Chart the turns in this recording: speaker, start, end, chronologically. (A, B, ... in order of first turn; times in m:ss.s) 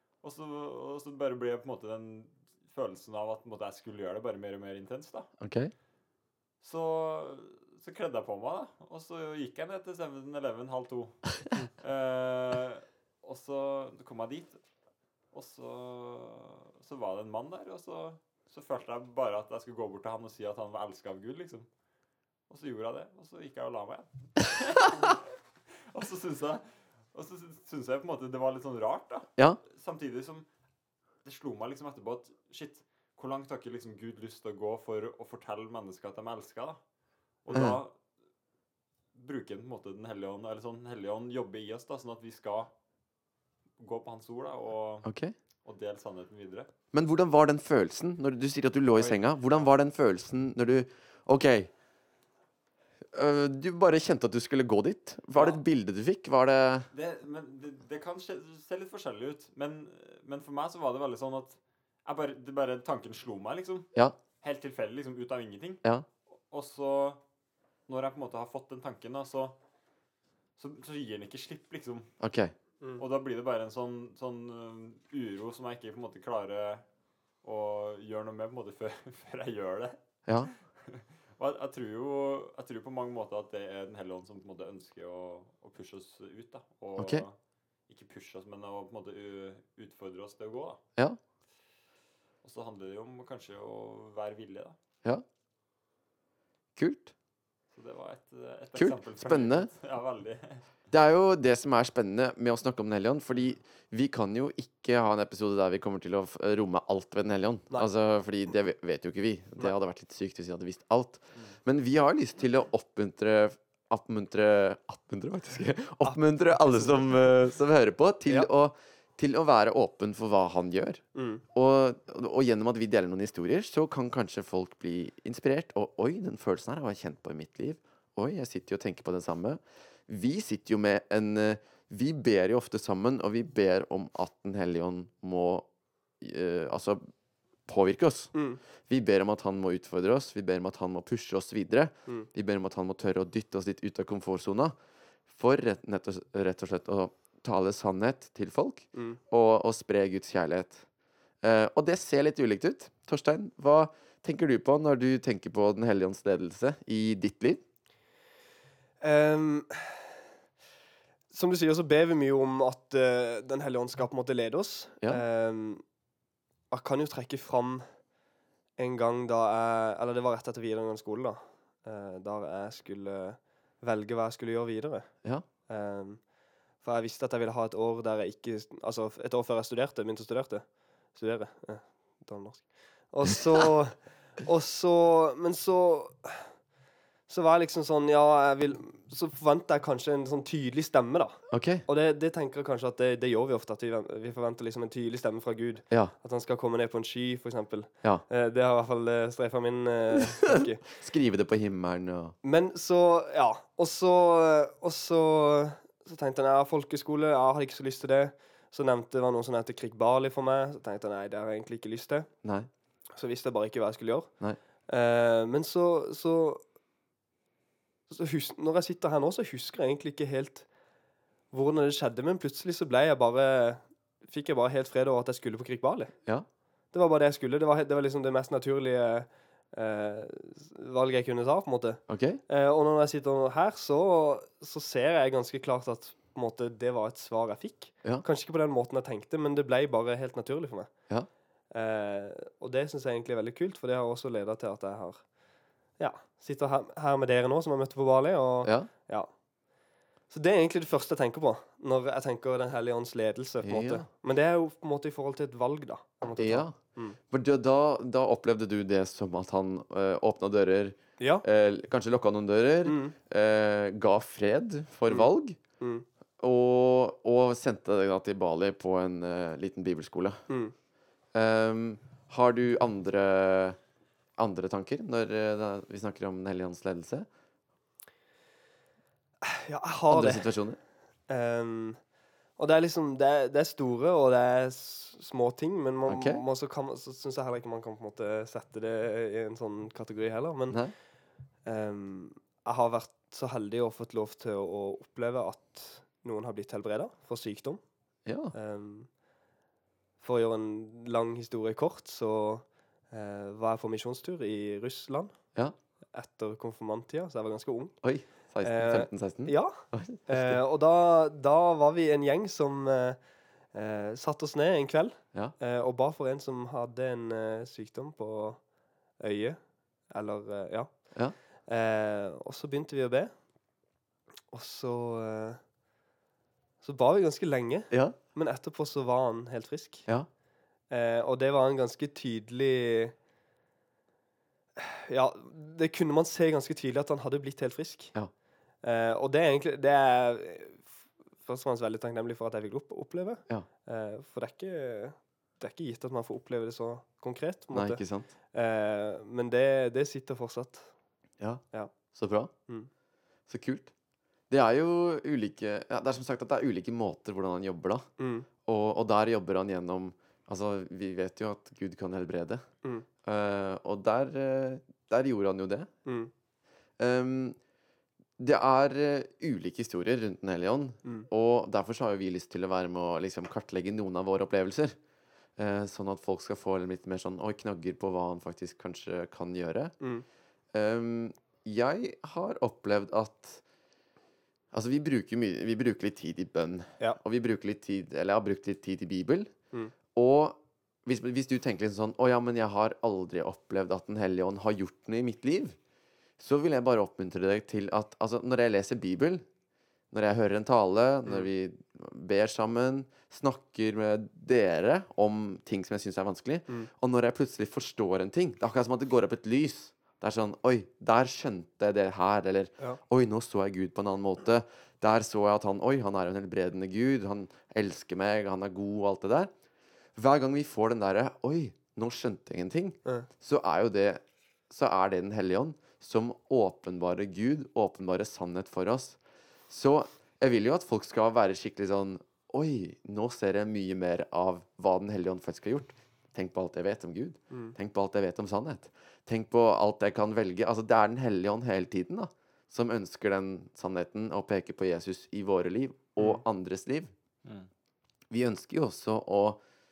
0:00.2-0:05.3 A
0:05.4-0:05.7 B
0:06.6-0:14.6 A
0:15.3-0:21.7 A
0:22.5-0:25.2 A
0:25.9-0:30.4 A
0:31.2-0:36.8 A
0:37.4-0:37.9 A
0:37.5-0:37.8 B
0:39.1-0:42.7 A
0:43.8-0:45.1 A
0:45.0-0:45.3 B
0:45.6-0:46.7 A
0:46.9-0:51.7 B
0:49.0-0:49.3 A
0:53.1-0:56.9 B
0:55.4-0:55.6 A
0:56.9-1:03.9 A
1:04.4-1:05.8 A
1:06.5-1:07.2 A
1:07.9-1:09.6 A
1:10.6-1:12.1 A
1:12.2-1:12.5 B
1:13.0-1:16.8 A
1:17.4-1:27.3 A
1:27.0-1:27.2 B
1:27.9-1:30.8 A
1:32.4-1:34.8 A
1:36.8-1:37.1 B
1:37.7-1:40.6 A
1:38.7-1:39.7 B
1:40.9-2:15.7 B
1:56.0-1:56.8 C
2:01.1-2:01.4 C
2:16.2-2:17.0 B
2:17.7-2:18.3 B
2:18.3-2:18.6 C
2:18.9-2:24.7 B
2:25.3-2:30.8 B
2:28.9-2:29.2 C
2:31.4-2:37.6 B
2:39.0-2:40.0 C
2:41.3-2:45.8 C
2:46.7-2:47.8 C
2:48.8-2:55.1 C
2:55.7-2:56.2 C
2:56.8-3:06.5 C
3:07.3-3:20.8 C
3:11.5-3:11.8 B
3:20.4-3:22.3 B
3:22.4-3:32.3 C
3:33.2-3:34.3 C
3:34.9-3:36.6 C
3:38.1-3:40.7 C
3:41.5-3:46.1 C
3:46.9-4:00.9 C
3:52.1-3:52.4 B
4:01.7-4:05.2 C
4:06.0-4:09.3 C
4:08.6-4:08.9 B
4:10.3-4:17.2 C
4:13.6-4:14.0 B
4:16.4-4:16.8 B
4:17.3-4:25.6 B
4:22.8-4:23.1 C
4:25.8-4:26.0 C
4:26.4-4:30.4 B
4:30.5-4:30.7 C
4:31.3-4:33.8 B
4:34.4-4:37.3 B
4:39.4-4:40.5 C
4:40.1-4:40.8 B
4:41.3-4:42.0 C
4:42.6-4:50.8 C
4:46.1-4:46.4 B
4:51.6-4:57.8 C
4:58.2-4:58.5 B
4:58.5-4:59.1 C
5:00.2-5:05.3 C
5:06.1-5:07.9 C
5:08.0-5:10.6 B
5:08.6-5:13.2 C
5:13.7-5:18.6 C
5:19.2-5:19.6 C
5:20.1-5:20.9 C
5:21.7-5:23.3 C
5:24.5-5:25.6 C
5:26.8-5:30.0 C
5:27.9-5:28.2 B
5:30.9-5:33.1 C
5:34.8-5:38.1 C
5:38.8-5:40.9 C
5:41.4-5:48.0 C
5:47.7-5:48.3 B
5:48.5-5:50.9 C
5:52.1-5:52.5 B
5:53.5-5:53.9 B
5:54.5-5:58.0 B
5:58.2-5:58.5 C
5:58.6-6:02.6 B
6:03.2-6:05.9 B
6:06.0-6:06.3 C
6:07.0-6:07.6 B
6:08.4-6:15.0 B
6:15.6-6:19.9 B
6:20.7-6:23.6 B
6:24.7-6:29.5 B
6:30.1-6:35.8 B
6:36.4-6:39.4 B
6:40.1-6:59.5 B
7:00.2-7:27.1 B
7:28.3-7:29.6 B